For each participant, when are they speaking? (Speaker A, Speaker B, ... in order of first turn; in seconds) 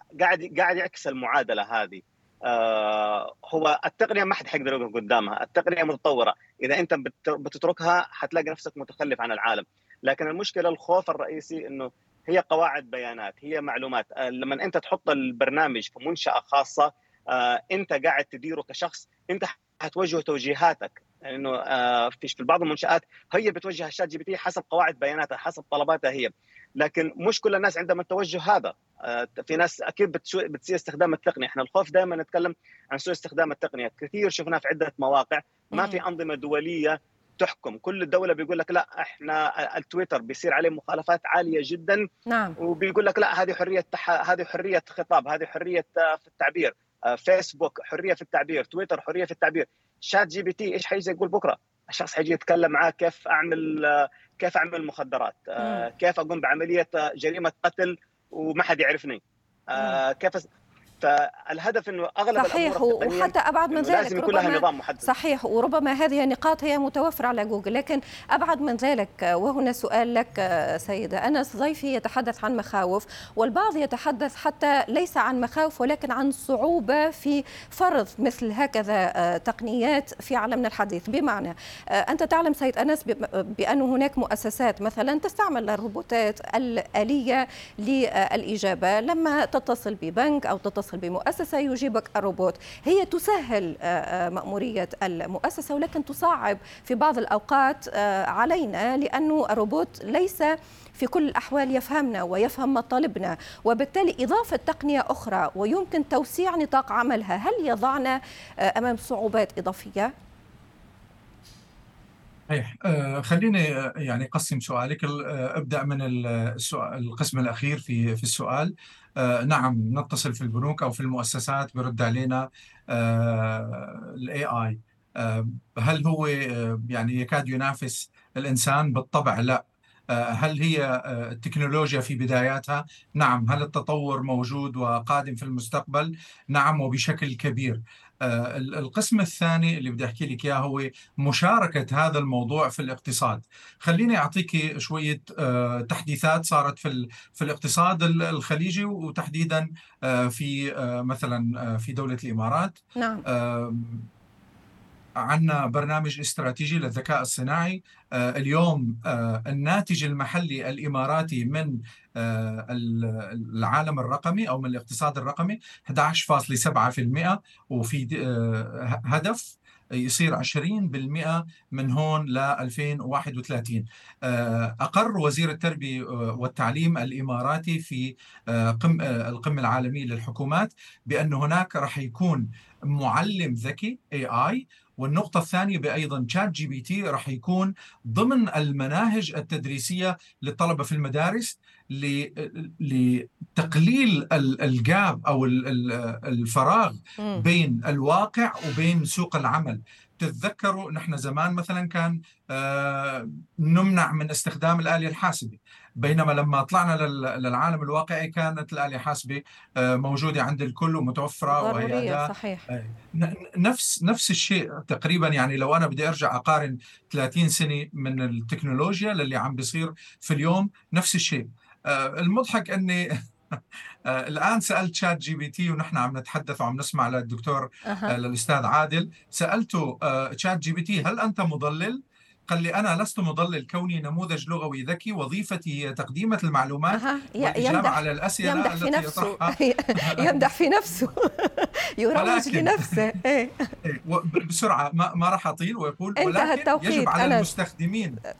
Speaker A: 0.2-42.0, 42.6-59.2, 59.7-60.5, 61.0-65.1
Speaker B: 35.7-36.0, 42.2-42.5, 55.6-55.9, 59.7-60.0, 62.4-110.1, 153.0-153.2, 197.2-197.4, 211.5-212.6, 227.8-228.2, 236.9-243.7, 246.2-247.5
Speaker C: 112.5-152.8, 153.3-154.1, 155.2-223.0, 224.1-240.4, 242.1-243.1, 243.8-248.2